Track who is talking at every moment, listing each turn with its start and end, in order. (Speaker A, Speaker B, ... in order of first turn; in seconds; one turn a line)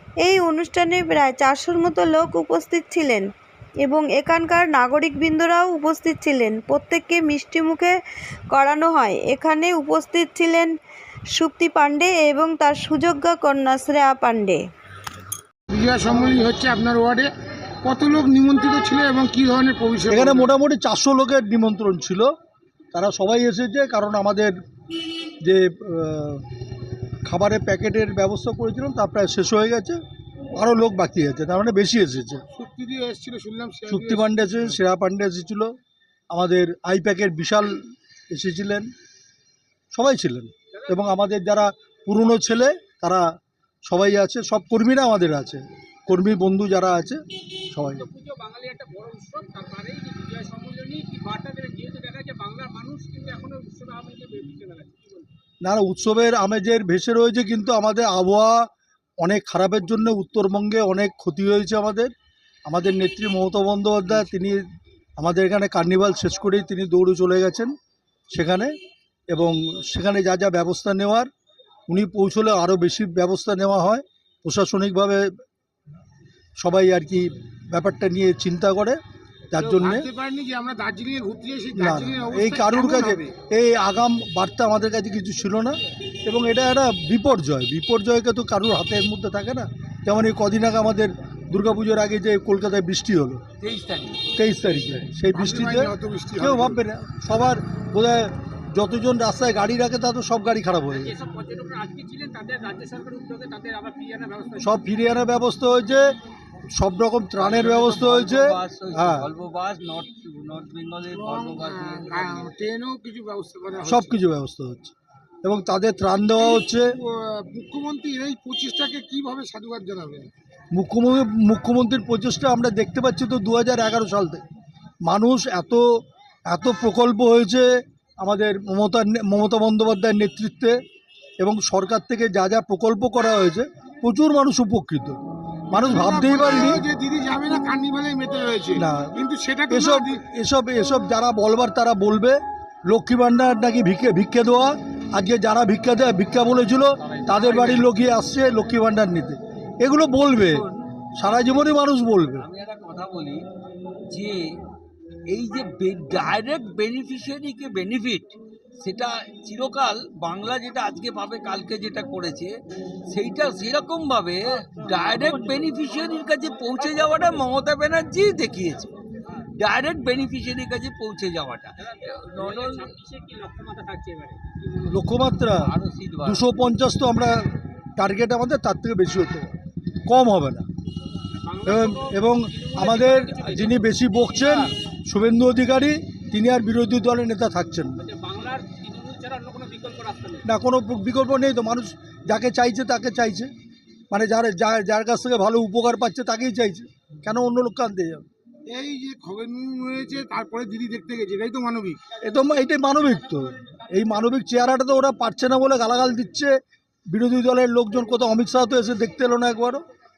Speaker A: 0.2-3.3
Speaker A: 3.8-8.0
Speaker A: 8.5-10.7
Speaker A: 11.3-14.6
Speaker B: 15.7-17.3
Speaker B: 17.8-20.5
Speaker C: 20.1-22.3
Speaker C: 22.9-24.5
Speaker C: 25.4-26.4
Speaker C: 27.2-30.0
Speaker C: 30.5-32.4
Speaker B: 32.5-34.7
Speaker C: 33.9-35.7
Speaker C: 36.3-38.9
Speaker C: 39.9-43.2
Speaker D: 40.7-41.2
Speaker C: 43.8-48.0
Speaker D: 48.0-55.3
Speaker C: 55.6-58.7
Speaker C: 59.2-62.1
Speaker C: 62.6-64.6
Speaker C: 65.2-67.7
Speaker C: 68.3-68.7
Speaker C: 69.3-71.3
Speaker C: 71.9-75.2
Speaker C: 76.6-79.0
Speaker C: 79.5-80.1
Speaker B: 79.6-83.3
Speaker C: 81.8-93.4
Speaker E: 93.6-95.1
Speaker C: 94.3-101.1
Speaker B: 95.3-96.8
Speaker D: 100.9-104.8
Speaker C: 104.6-106.1
Speaker C: 106.7-109.3
Speaker E: 107.4-112.5
Speaker B: 111.1-114.2
Speaker C: 113.8-116.9
Speaker B: 116.3-120.3
Speaker C: 120.7-124.4
Speaker C: 125.0-125.8
Speaker C: 126.5-127.7
Speaker C: 128.2-130.8
Speaker C: 131.4-135.2
Speaker C: 135.7-136.8
Speaker B: 135.7-140.2
Speaker C: 138.8-139.1
Speaker C: 139.7-152.5
Speaker E: 147.0-147.9
Speaker E: 150.3-150.7
Speaker E: 152.4-153.4
Speaker E: 154.1-154.5
Speaker E: 155.3-162.5
Speaker E: 163.1-168.9
Speaker E: 169.6-172.9
Speaker D: 172.3-174.4
Speaker C: 174.9-175.7
Speaker E: 175.5-176.4
Speaker C: 176.2-179.5
Speaker C: 180.0-180.6
Speaker D: 181.4-183.9
Speaker C: 181.6-188.0
Speaker D: 188.0-190.4
Speaker C: 190.4-193.5
Speaker C: 194.1-198.2
Speaker B: 198.7-202.0
Speaker C: 202.2-206.5
Speaker C: 207.1-209.8